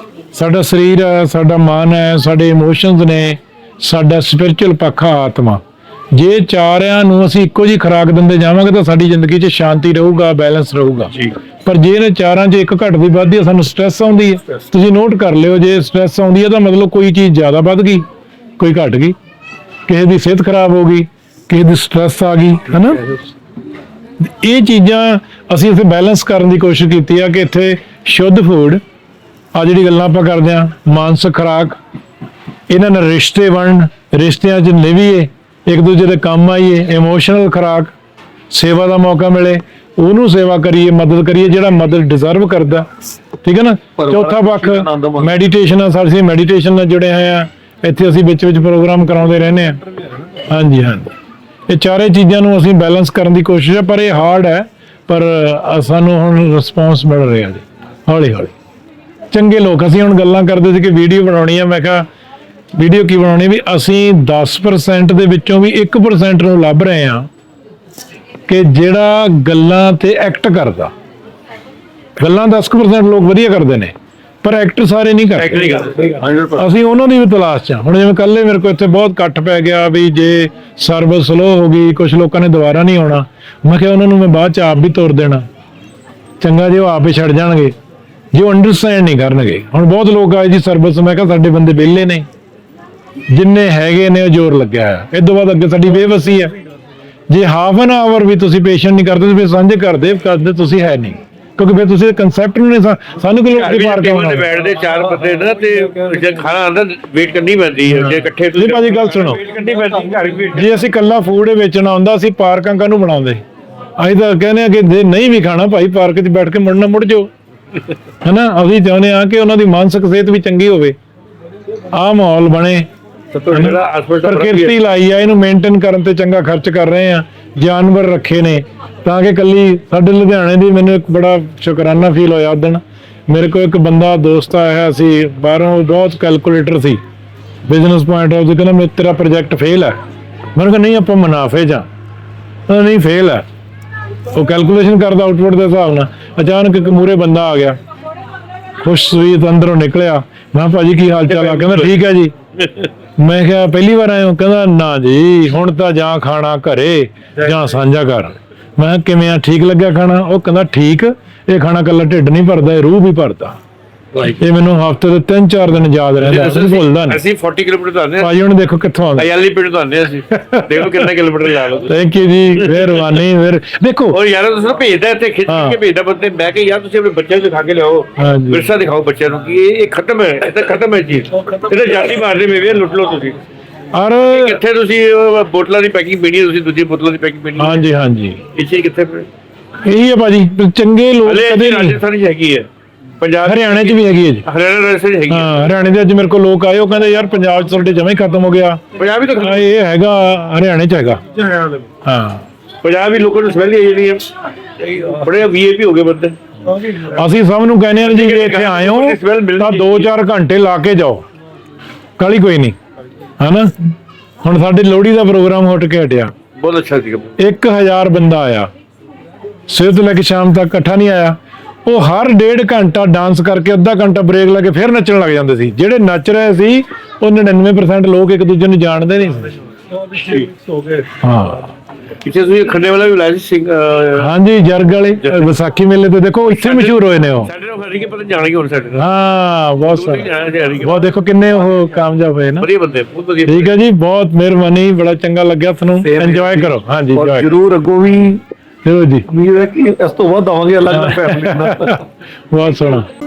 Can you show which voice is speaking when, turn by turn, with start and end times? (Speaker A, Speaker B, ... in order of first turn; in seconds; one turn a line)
Speaker A: 0.3-5.6
Speaker A: 6.1-11.1
Speaker A: 11.6-18.1
Speaker A: 18.6-19.2
Speaker A: 19.9-23.1
Speaker A: 24.2-28.8
Speaker A: 29.6-31.8
Speaker A: 32.7-37.9
Speaker A: 38.5-42.9
Speaker A: 43.4-49.8
Speaker B: 44.0-45.4
Speaker A: 50.5-51.1
Speaker A: 51.7-58.5
Speaker A: 59.3-62.1
Speaker A: 62.8-67.3
Speaker A: 68.5-70.9
Speaker A: 72.2-75.8
Speaker C: 75.4-76.2
Speaker B: 75.9-76.7
Speaker A: 76.6-85.4
Speaker A: 86.4-87.8
Speaker A: 88.3-92.3
Speaker A: 93.3-96.5
Speaker A: 97.3-104.5
Speaker C: 103.5-110.8
Speaker A: 107.9-109.4
Speaker A: 110.5-113.4
Speaker A: 114.0-117.3
Speaker A: 118.2-121.0
Speaker A: 121.9-122.9
Speaker C: 123.3-124.8
Speaker A: 123.5-137.0
Speaker A: 137.7-140.0
Speaker A: 140.6-141.9
Speaker A: 142.7-143.5
Speaker A: 144.3-147.8
Speaker A: 148.8-152.3
Speaker C: 151.3-152.0
Speaker C: 152.6-152.9
Speaker A: 153.2-163.6
Speaker A: 164.3-167.2
Speaker C: 166.2-168.3
Speaker A: 168.2-169.3
Speaker C: 169.2-172.0
Speaker A: 170.3-171.1
Speaker A: 171.9-174.2
Speaker C: 172.6-173.2
Speaker C: 174.1-183.4
Speaker A: 175.5-175.8
Speaker A: 178.2-178.7
Speaker A: 183.9-184.6
Speaker C: 184.2-187.8
Speaker A: 187.6-188.4
Speaker C: 188.5-189.3
Speaker A: 189.8-192.0
Speaker C: 191.2-192.7
Speaker C: 193.2-195.8
Speaker A: 193.4-194.5
Speaker A: 195.3-198.8
Speaker C: 198.9-199.7
Speaker A: 199.4-201.2
Speaker B: 201.4-201.8
Speaker A: 202.0-202.4
Speaker C: 202.8-206.4
Speaker B: 206.7-207.2
Speaker A: 207.0-211.2
Speaker C: 208.0-210.1
Speaker A: 212.2-212.8
Speaker A: 213.4-213.7
Speaker A: 214.4-216.3
Speaker C: 216.6-217.4
Speaker A: 217.4-218.7
Speaker A: 219.7-229.6
Speaker B: 229.9-231.1
Speaker C: 230.2-230.5
Speaker A: 231.2-231.7
Speaker C: 232.2-234.3
Speaker A: 234.2-237.5
Speaker C: 235.2-235.5
Speaker C: 236.5-239.1
Speaker A: 238.9-240.3
Speaker C: 239.8-241.1
Speaker A: 240.8-242.7
Speaker C: 242.6-243.8
Speaker A: 243.5-247.6
Speaker B: 246.0-248.4
Speaker A: 248.8-249.3
Speaker B: 249.3-252.0
Speaker A: 250.9-253.1